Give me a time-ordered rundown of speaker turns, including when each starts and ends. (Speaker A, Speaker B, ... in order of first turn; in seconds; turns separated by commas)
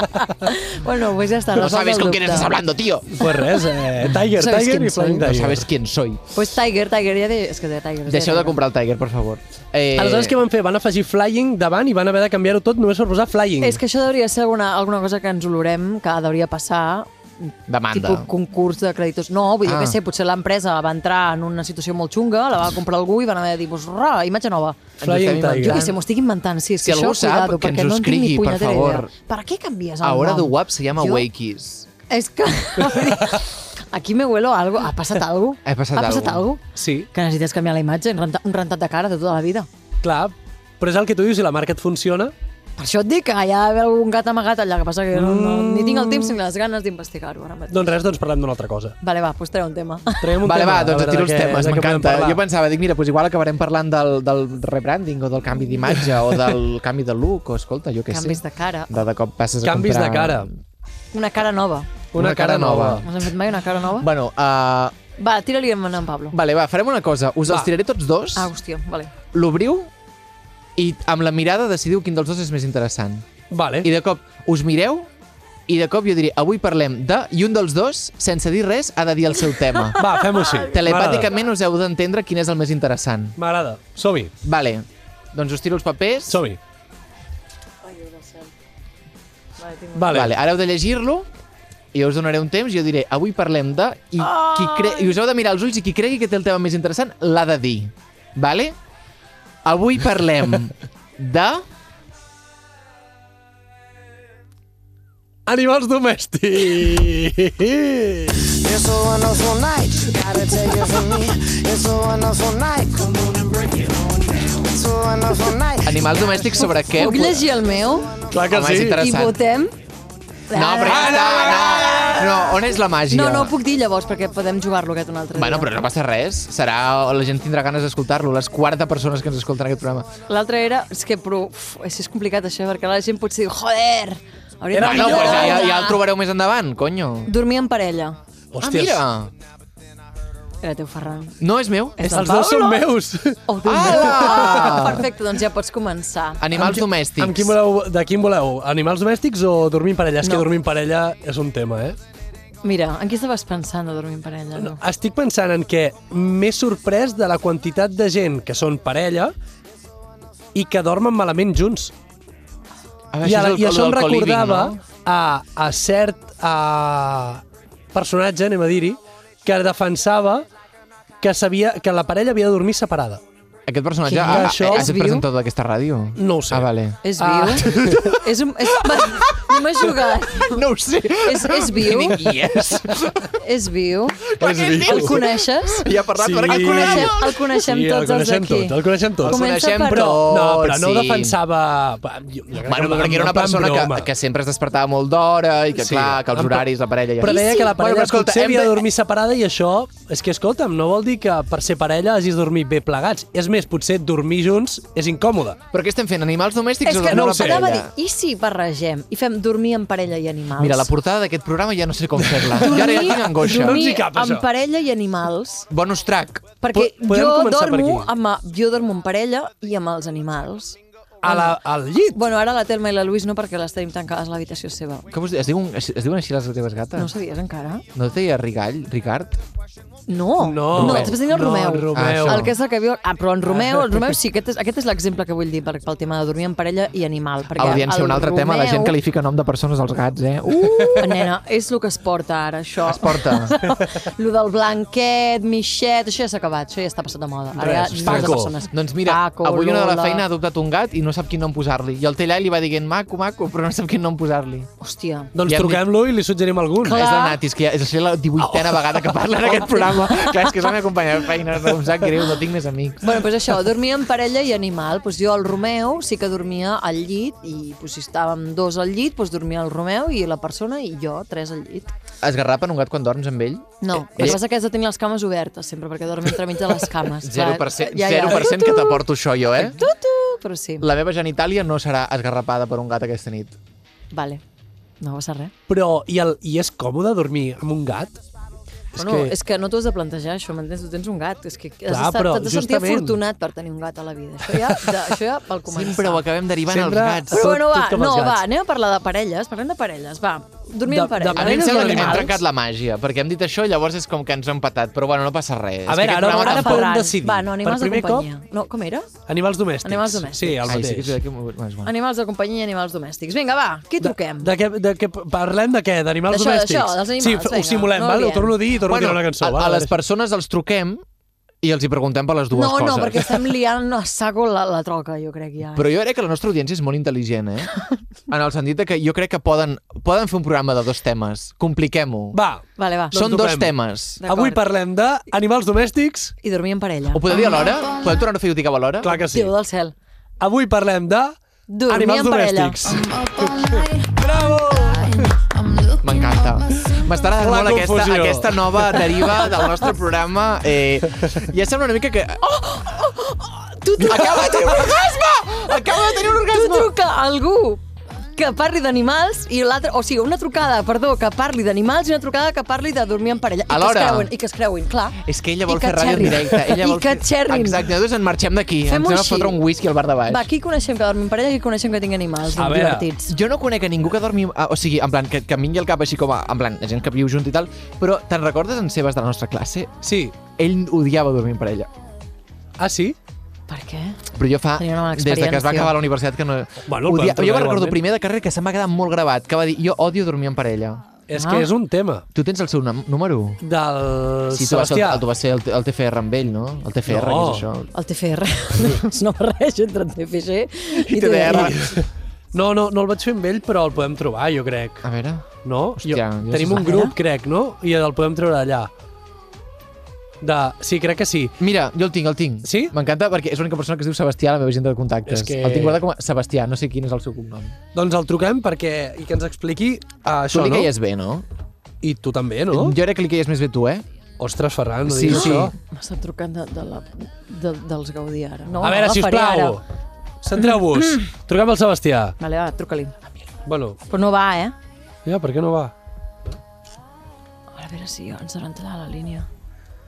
Speaker A: 0.2-2.5, Speaker B: 1.5-3.2, Speaker C: 3.2-5.7, Speaker A: 4.3-5.3, Speaker B: 5.3-6.2, Speaker A: 6.3-8.6, Speaker B: 8.1-10.4, Speaker C: 9.9-13.8, Speaker A: 13.6-24.8, Speaker B: 17.7-18.3, Speaker B: 19.6-20.0, Speaker B: 25.0-26.0, Speaker C: 25.0-25.8, Speaker A: 25.6-31.3, Speaker B: 26.8-29.1, Speaker B: 30.0-31.9, Speaker A: 32.1-39.7, Speaker B: 35.6-36.4, Speaker C: 36.8-37.1, Speaker C: 40.0-42.3, Speaker A: 42.8-47.9, Speaker C: 45.1-46.4, Speaker C: 47.7-49.0, Speaker A: 49.0-50.4, Speaker C: 50.2-52.4, Speaker B: 50.4-60.5, Speaker A: 58.1-58.9, Speaker C: 59.6-60.5, Speaker A: 61.1-61.9, Speaker C: 62.1-63.1, Speaker B: 62.1-63.1, Speaker A: 63.0-64.1, Speaker B: 64.0-65.0, Speaker A: 65.2-66.4, Speaker B: 66.3-68.5, Speaker A: 68.3-69.1, Speaker B: 69.3-69.9, Speaker B: 70.8-73.3, Speaker C: 73.5-73.9, Speaker B: 73.8-75.1, Speaker B: 75.7-83.4, Speaker C: 80.0-81.3, Speaker C: 83.4-84.3, Speaker B: 84.4-86.4, Speaker C: 86.3-86.6, Speaker A: 87.9-88.5, Speaker A: 89.6-90.2, Speaker C: 90.0-90.3, Speaker B: 90.1-91.3, Speaker B: 91.9-98.8, Speaker A: 94.2-95.2, Speaker B: 99.7-101.7, Speaker C: 105.5-108.6, Speaker D: 108.6-116.6, Speaker B: 115.8-117.4, Speaker A: 116.8-118.2, Speaker C: 118.3-119.0, Speaker B: 118.5-119.4, Speaker A: 118.9-119.7, Speaker A: 120.5-122.5, Speaker B: 120.5-123.5, Speaker C: 120.9-122.0, Speaker A: 123.1-125.7, Speaker B: 125.3-130.1, Speaker A: 130.3-136.0, Speaker C: 134.7-135.7, Speaker B: 134.8-137.3, Speaker A: 137.3-138.2, Speaker C: 138.5-139.1, Speaker B: 138.6-139.3, Speaker A: 140.6-141.4, Speaker B: 141.4-142.1, Speaker A: 142.0-142.8, Speaker C: 142.1-144.9, Speaker A: 143.5-146.8, Speaker B: 143.6-145.1, Speaker B: 146.4-147.5, Speaker C: 147.2-152.0, Speaker A: 152.6-154.8, Speaker C: 154.6-159.3, Speaker C: 160.5-161.9, Speaker B: 163.1-164.8, Speaker C: 163.2-167.4, Speaker C: 167.9-170.5, Speaker C: 171.2-173.2, Speaker B: 173.7-177.0, Speaker A: 174.1-175.3, Speaker C: 174.2-174.9, Speaker C: 176.2-178.0, Speaker A: 177.0-180.7, Speaker B: 177.5-183.3, Speaker A: 181.2-182.2, Speaker A: 183.4-184.3, Speaker C: 184.4-185.2, Speaker B: 184.4-187.4, Speaker A: 184.8-185.9, Speaker C: 186.2-194.1, Speaker A: 186.5-190.2, Speaker B: 189.2-191.4, Speaker B: 192.7-198.8, Speaker C: 195.8-196.7, Speaker C: 197.2-205.6, Speaker A: 197.2-197.7, Speaker B: 205.7-207.9, Speaker A: 206.8-210.9, Speaker C: 207.1-207.7, Speaker B: 210.6-213.8, Speaker C: 212.2-214.5, Speaker A: 212.6-215.7, Speaker B: 215.7-216.5, Speaker A: 216.6-221.6, Speaker C: 216.7-218.1, Speaker C: 221.2-222.2, Speaker A: 222.1-225.1, Speaker B: 225.1-227.1, Speaker A: 226.9-227.8, Speaker B: 227.9-229.3, Speaker A: 230.1-239.0, Speaker C: 230.4-232.5, Speaker B: 230.7-231.2, Speaker B: 231.9-232.6, Speaker B: 237.6-241.2, Speaker C: 240.7-240.9, Speaker A: 241.0-250.2, Speaker B: 242.8-243.6, Speaker C: 247.6-248.5, Speaker B: 248.0-254.7, Speaker A: 254.8-255.3, Speaker C: 255.3-257.0, Speaker B: 255.5-255.8, Speaker A: 256.8-257.4, Speaker B: 256.9-263.2, Speaker C: 258.4-259.5, Speaker A: 259.7-260.4, Speaker A: 263.0-271.9, Speaker B: 272.2-274.4, Speaker A: 273.8-279.0, Speaker B: 277.2-279.8, Speaker A: 279.6-280.9, Speaker B: 280.8-283.6, Speaker A: 284.1-284.4, Speaker A: 285.0-285.5, Speaker C: 285.7-288.2, Speaker C: 289.0-289.3, Speaker A: 289.0-296.2, Speaker C: 291.9-293.2, Speaker C: 294.5-294.9, Speaker B: 295.6-297.5, Speaker C: 296.7-298.4, Speaker A: 297.3-302.4, Speaker C: 300.9-302.3, Speaker B: 301.4-306.9, Speaker C: 305.9-308.3, Speaker A: 306.2-309.1, Speaker C: 309.3-311.2, Speaker A: 309.8-310.6, Speaker B: 310.6-311.9, Speaker A: 311.8-314.5, Speaker C: 314.0-319.9, Speaker A: 316.3-318.6, Speaker B: 318.8-321.0, Speaker B: 321.6-323.5, Speaker A: 322.5-325.9, Speaker B: 325.8-327.7, Speaker B: 328.3-332.4, Speaker C: 332.3-333.7, Speaker A: 332.8-333.2, Speaker B: 333.1-334.2, Speaker A: 334.2-334.6, Speaker C: 334.3-336.4, Speaker A: 336.4-337.3, Speaker B: 337.1-339.1, Speaker C: 339.0-339.5, Speaker A: 339.0-339.9, Speaker C: 340.4-341.4, Speaker A: 341.7-342.9, Speaker C: 341.9-343.7, Speaker B: 344.2-345.0, Speaker B: 346.0-352.4, Speaker C: 347.4-349.0, Speaker A: 352.4-355.0, Speaker B: 354.0-356.9, Speaker A: 356.4-357.8, Speaker A: 358.3-367.9, Speaker B: 363.7-364.3, Speaker B: 365.2-370.5, Speaker A: 368.9-369.6, Speaker A: 370.3-373.3, Speaker C: 372.6-373.1, Speaker B: 373.3-379.9, Speaker C: 380.0-380.4, Speaker B: 380.5-381.9, Speaker C: 382.8-383.2, Speaker A: 383.7-384.2, Speaker B: 384.3-391.1, Speaker A: 384.8-385.9, Speaker C: 386.9-388.0, Speaker C: 391.3-392.2, Speaker A: 391.4-391.7, Speaker B: 392.3-393.6, Speaker C: 393.6-395.2, Speaker B: 394.5-397.9, Speaker C: 397.1-397.7, Speaker A: 397.9-401.7, Speaker B: 400.9-401.9, Speaker C: 401.5-405.1, Speaker B: 405.0-406.9, Speaker C: 405.6-408.9, Speaker A: 406.8-407.1, Speaker C: 410.4-411.5, Speaker B: 411.6-417.8, Speaker C: 412.6-412.9, Speaker C: 415.3-416.0, Speaker C: 417.9-420.9, Speaker B: 420.5-421.5, Speaker C: 422.0-423.0, Speaker B: 422.7-424.1, Speaker C: 424.4-425.7, Speaker B: 425.1-425.7, Speaker A: 425.3-429.8, Speaker C: 428.8-429.8, Speaker C: 430.4-432.4, Speaker A: 430.6-431.0, Speaker A: 432.4-433.1, Speaker C: 433.6-434.0, Speaker A: 434.1-434.8, Speaker C: 435.2-435.9, Speaker A: 437.8-439.5